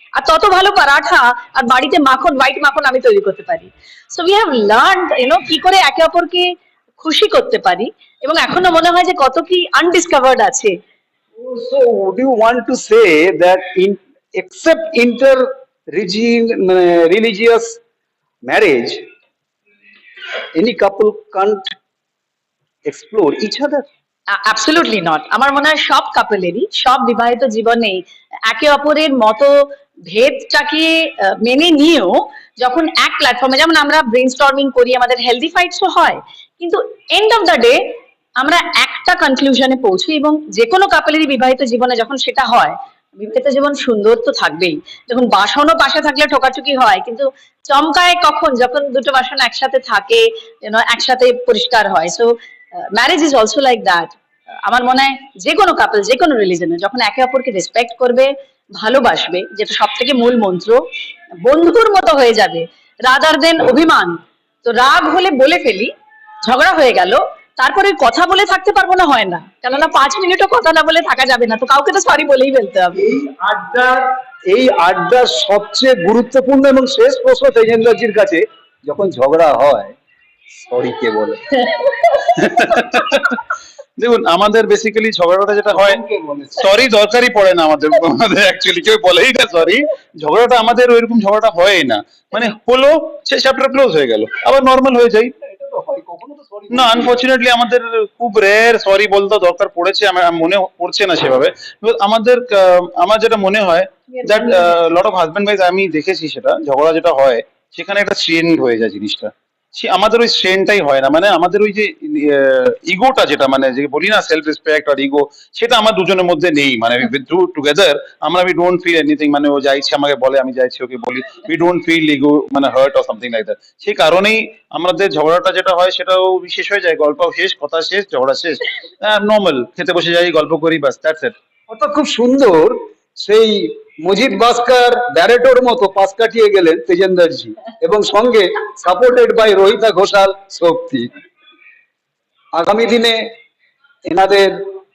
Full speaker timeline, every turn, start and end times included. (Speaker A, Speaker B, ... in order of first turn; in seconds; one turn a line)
Speaker A: 0.1-10.7
Speaker B: 11.4-17.8
Speaker B: 18.5-19.0
Speaker B: 20.5-21.7
Speaker B: 22.9-23.9
Speaker A: 24.3-29.5
Speaker A: 30.1-37.8
Speaker A: 38.4-54.1
Speaker A: 54.6-60.8
Speaker A: 61.4-65.9
Speaker A: 66.4-73.0
Speaker B: 73.0-80.0
Speaker B: 80.5-81.7
Speaker C: 82.4-83.4
Speaker C: 84.0-86.0
Speaker B: 85.7-86.6
Speaker C: 86.6-95.3
Speaker B: 95.4-97.2
Speaker C: 96.7-131.3
Speaker B: 131.7-141.1
Speaker B: 142.6-143.3
Speaker B: 144.1-144.6